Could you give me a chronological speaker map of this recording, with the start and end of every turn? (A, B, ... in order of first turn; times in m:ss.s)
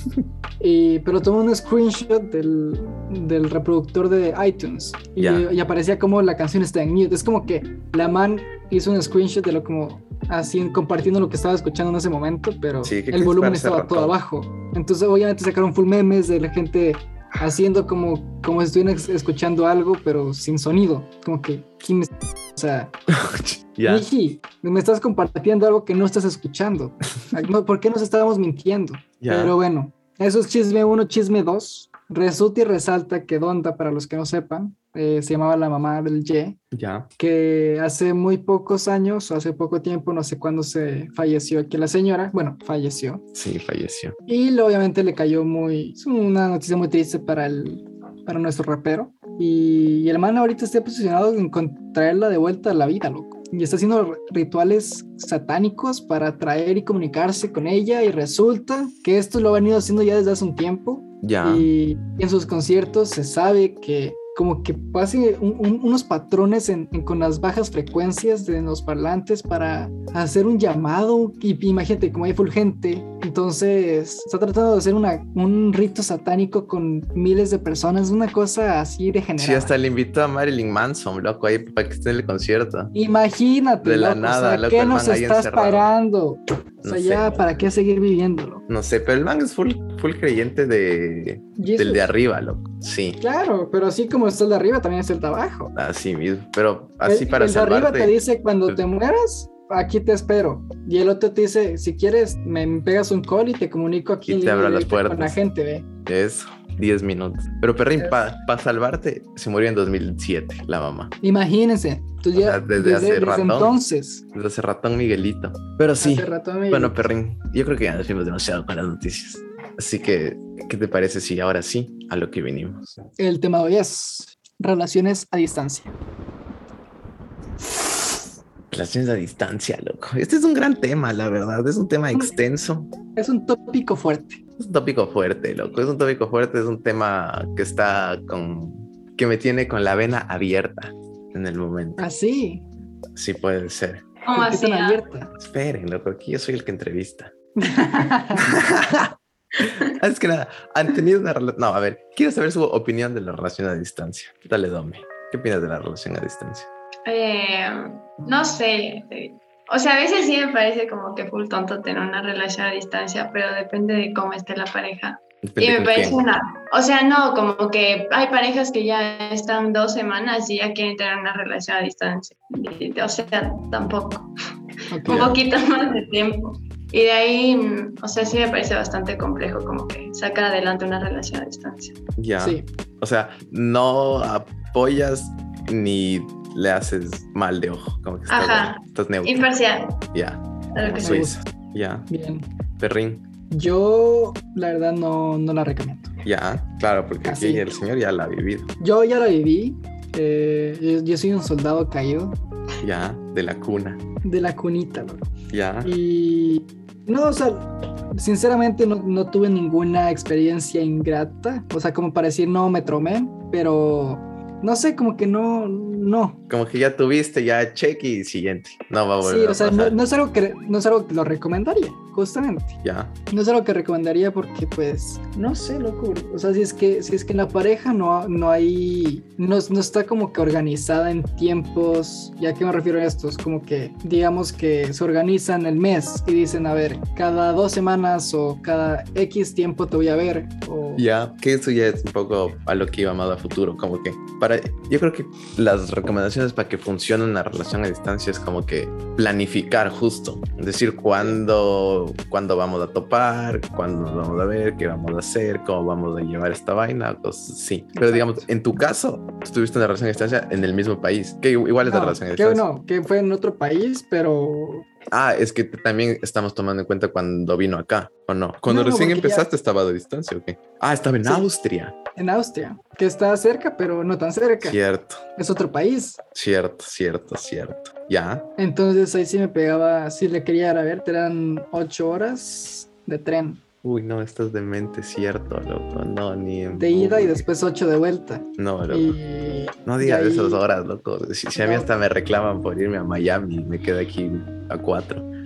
0:00.6-0:22.9 A
0:05.2-0:05.5 B
0:12.8-0:14.1 B
0:23.1-0:24.0 B
0:23.8-0:36.6 A
0:29.2-0:29.6 B
0:36.7-0:37.1 B
0:37.2-0:43.2 A
0:43.3-0:44.2 B
0:44.3-1:19.7 A
1:01.2-1:01.7 B
1:19.4-1:22.9 B
1:22.9-1:28.6 A
1:23.8-1:25.9 B
1:26.8-1:27.5 B
1:28.7-1:33.2 B
1:31.6-1:32.1 A
1:33.2-1:35.7 A
1:35.7-1:38.2 B
1:37.0-1:45.8 A
1:44.2-1:45.4 B
1:46.0-1:51.1 B
1:51.2-1:54.2 A
1:52.3-1:53.8 B
1:54.3-2:03.0 B
1:56.0-1:57.0 A
2:03.2-2:05.9 A
2:08.7-2:12.9 B
2:13.2-2:14.4 A
2:14.6-2:22.0 B
2:22.0-2:22.6 A
2:23.2-2:24.0 B
2:24.2-2:25.0 C
2:24.3-2:25.3 A
2:25.4-2:27.3 B
2:27.6-2:28.6 A
2:28.4-2:36.7 B
2:37.0-2:54.3 C
2:45.4-2:46.2 B
2:54.9-2:55.3 A
2:55.0-3:02.0 C
2:55.0-2:55.4 B
3:02.2-3:09.5 B
3:02.4-3:02.6 A
3:08.3-3:10.0 C
3:10.1-3:12.0 B
3:10.7-3:11.2 C
3:11.0-3:11.4 A
3:12.1-3:12.5 A
3:12.8-3:13.2 B
3:13.5-3:16.1 A
3:16.2-3:18.7 B
3:17.2-3:17.7 A
3:18.8-3:22.4 A
3:22.8-3:24.0 B
3:24.2-3:25.2 A
3:25.5-3:25.9 B
3:25.8-3:36.4 A
3:36.5-3:40.0 B
3:39.2-3:42.8 A
3:42.8-3:43.1 B
3:43.3-4:01.0 A
4:01.0-4:22.6 B
4:18.0-4:18.4 A
4:21.8-4:24.8 A
4:25.1-4:31.9 B
4:28.7-4:29.5 A
4:32.2-4:34.8 A
4:34.6-4:35.2 B
4:35.4-4:36.2 A
4:36.3-4:38.5 B
4:38.6-4:43.6 A
4:43.8-4:47.4 B
4:46.7-4:50.6 A
4:48.6-4:49.1 B
4:49.8-4:55.3 B
4:51.6-4:51.9 A